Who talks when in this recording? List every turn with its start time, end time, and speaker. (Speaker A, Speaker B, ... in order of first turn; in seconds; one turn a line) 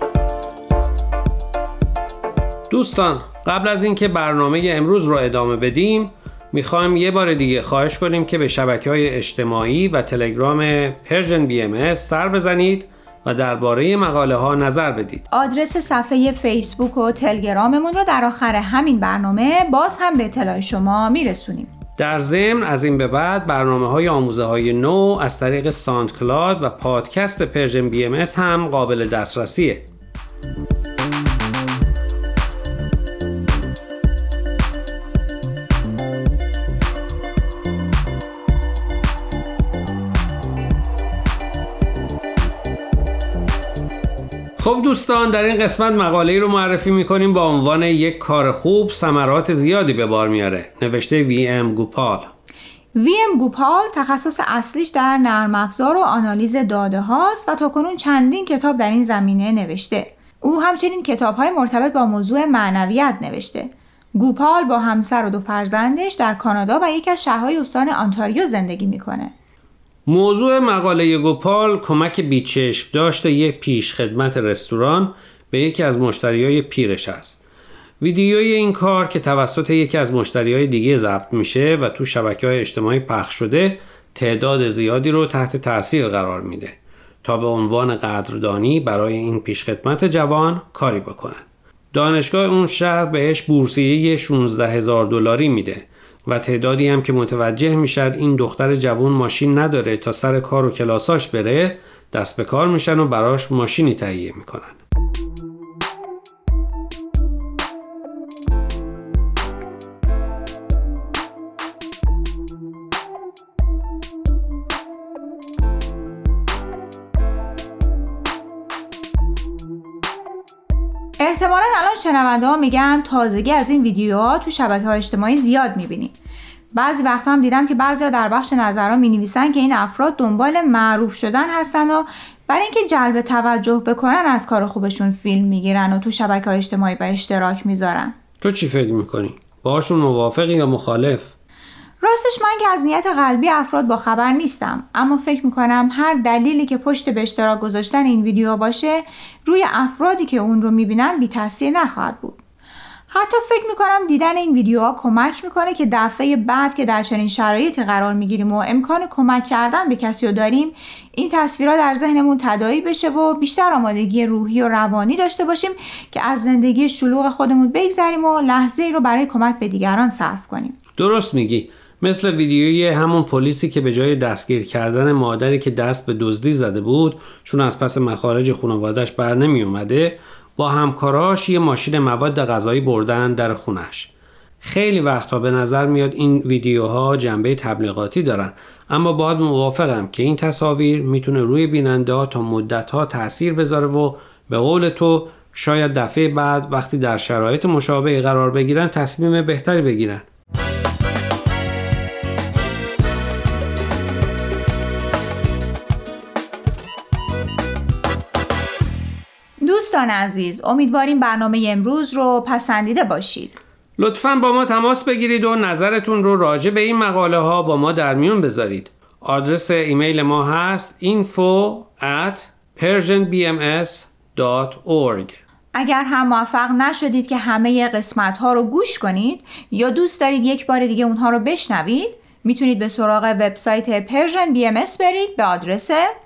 Speaker A: 2.7-15.2
Speaker B: 15.3-21.7
Speaker A: 22.0-29.8
Speaker A: 44.6-52.3
Speaker B: 52.9-69.3
Speaker A: 70.1-77.4
Speaker A: 78.0-104.8
Speaker B: 121.2-126.1
Speaker B: 126.7-138.1
Speaker A: 138.4-141.3
Speaker B: 142.0-152.4
Speaker B: 153.1-170.8
Speaker A: 171.0-200.2
Speaker B: 209.6-213.6
Speaker A: 214.0-225.4
Speaker B: 225.7-236.1